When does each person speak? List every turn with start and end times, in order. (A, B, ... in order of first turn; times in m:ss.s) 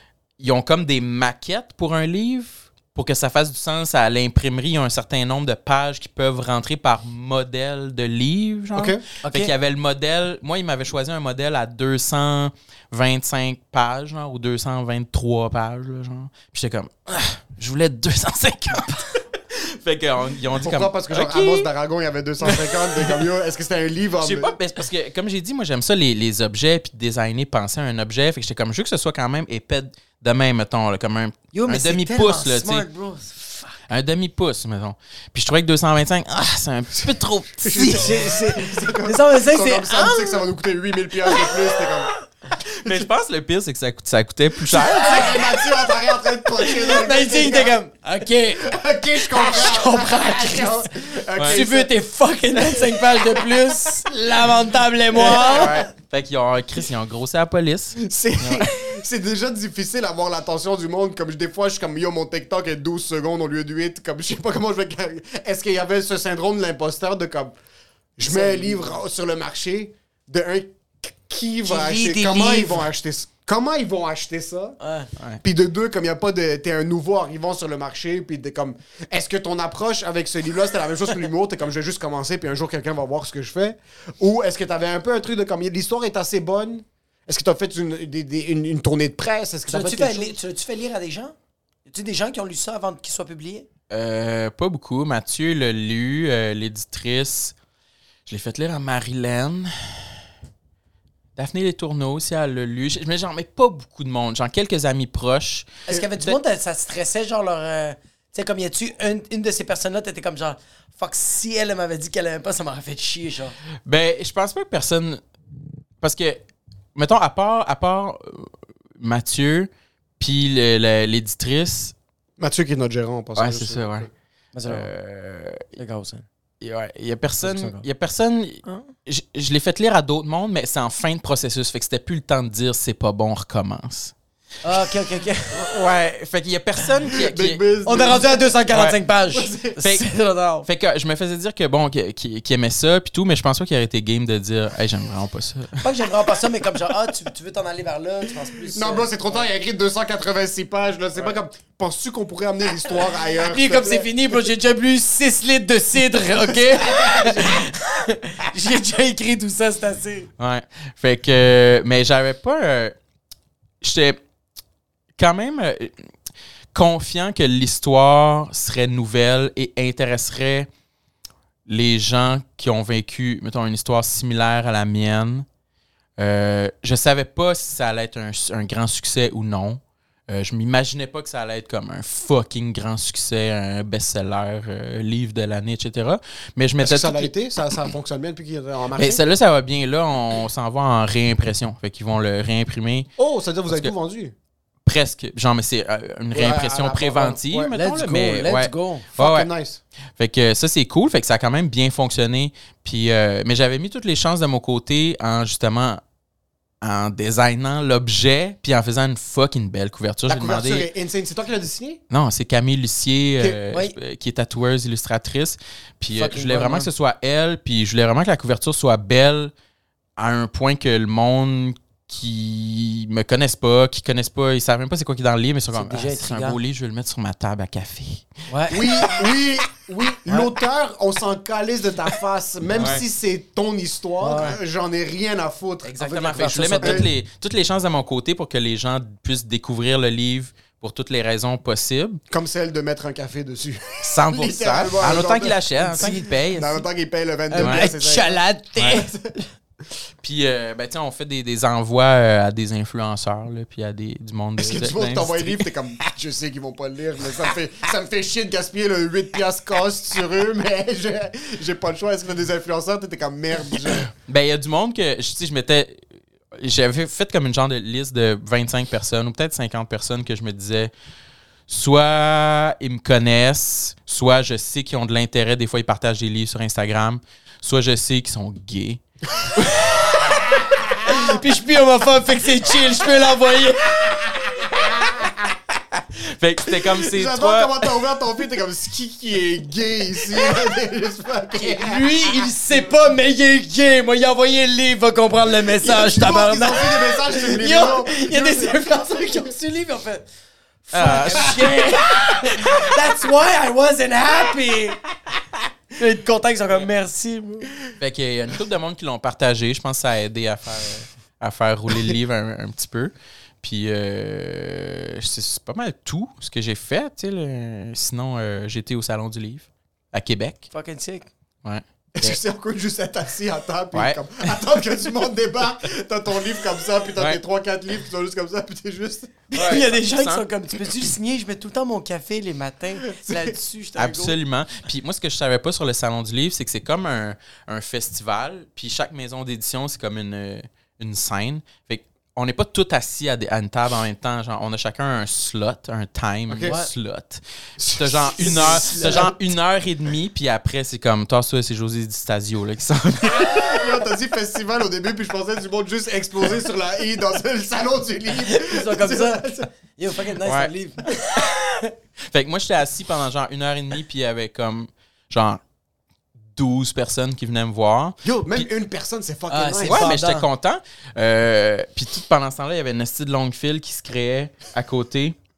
0:00.4-0:21.7 A
0:08.7-0:09.0 B
0:09.2-0:09.5 C
0:20.6-0:24.5 B
0:22.4-0:23.2 A
0:24.2-0:32.8 A
0:31.5-0:33.7 C
0:33.9-0:38.1 A
0:37.6-0:42.1 B
0:37.7-0:40.5 C
0:41.3-0:41.6 C
0:42.6-0:45.4 A
0:44.7-0:47.8 B
0:45.0-0:45.6 C
0:46.6-0:48.7 C
0:48.5-0:51.9 B
0:49.2-0:50.9 C
0:51.4-0:51.6 A
0:51.4-0:55.9 C
0:55.1-0:55.8 B
0:55.2-0:58.7 A
0:58.0-1:07.5 B
1:08.2-1:14.8 B
1:08.2-1:09.0 C
1:11.6-1:12.8 C
1:14.8-1:15.1 C
1:15.4-1:30.4 B
1:29.7-1:31.3 C
1:31.8-1:33.7 C
1:33.9-1:37.5 A
1:38.3-1:40.2 A
1:41.4-1:46.4 A
1:45.9-1:53.6 C
1:53.8-1:55.2 A
1:56.0-1:56.4 A
1:57.0-2:01.9 A
2:02.4-2:04.1 B
2:03.4-2:04.1 A
2:04.5-2:04.9 C
2:04.7-2:05.7 A
2:05.8-2:06.2 C
2:06.6-2:14.1 A
2:07.4-2:07.8 C
2:14.6-2:15.6 C
2:15.5-2:18.1 A
2:17.1-2:18.5 B
2:17.8-2:20.7 C
2:18.7-2:19.0 A
2:19.3-2:19.8 B
2:19.8-2:20.1 A
2:20.6-2:26.1 A
2:25.8-2:29.4 C
2:28.7-2:34.1 B
2:33.4-2:40.3 C
2:36.6-2:37.6 B
2:40.4-2:43.0 A
2:43.8-2:44.2 A
2:45.2-2:45.9 A
2:46.7-2:50.7 A
2:51.7-2:55.4 A
2:56.2-3:07.3 A
3:06.8-3:09.2 B
3:09.0-3:13.1 A
3:13.2-3:14.3 B
3:13.7-3:13.9 A
3:14.8-3:19.5 A
3:16.3-3:17.4 B
3:17.5-3:19.1 C
3:19.2-3:19.8 B
3:20.2-3:26.0 A
3:26.8-3:30.9 A
3:30.3-3:32.0 B
3:32.1-3:39.5 A
3:33.7-3:33.9 C
3:36.1-3:36.9 C
3:40.2-3:48.2 A
3:45.7-3:46.6 C
3:48.5-3:48.8 C
3:48.7-3:57.1 B
3:52.7-3:53.0 A
3:54.2-3:54.6 C
3:55.8-4:02.2 A
3:56.0-3:57.1 C
4:02.3-4:08.4 B
4:04.0-4:06.8 A
4:05.9-4:06.3 C
4:07.5-4:09.2 C
4:07.6-4:07.8 A
4:10.2-4:15.7 A
4:14.6-4:24.1 B
4:24.1-4:30.9 A
4:31.7-4:39.0 A
4:39.6-4:40.0 A
4:40.0-4:40.4 C
4:41.0-4:44.2 C
4:44.5-4:45.5 B
4:45.9-4:47.9 A
4:46.8-4:52.5 B
4:51.6-5:00.2 C
4:55.8-4:59.4 B
5:00.9-5:05.0 C
5:00.9-5:02.2 A
5:01.2-5:01.6 B
5:06.0-5:07.7 C
5:08.0-5:20.7 A
5:20.7-5:21.3 C
5:21.6-5:22.4 A
5:22.2-5:29.4 B
5:23.9-5:24.6 A
5:29.5-5:34.3 C
5:29.5-5:30.4 A
5:33.1-5:33.6 B
5:34.0-5:53.8 A
5:46.5-5:46.8 B
5:47.8-5:49.4 B
5:48.4-5:49.3 C
5:53.2-5:59.7 B
5:58.4-6:01.9 C
6:00.4-6:00.7 A
6:02.3-6:05.6 A
6:06.5-6:08.7 A
6:08.2-6:10.1 B
6:09.5-6:10.4 C
6:09.8-6:15.4 A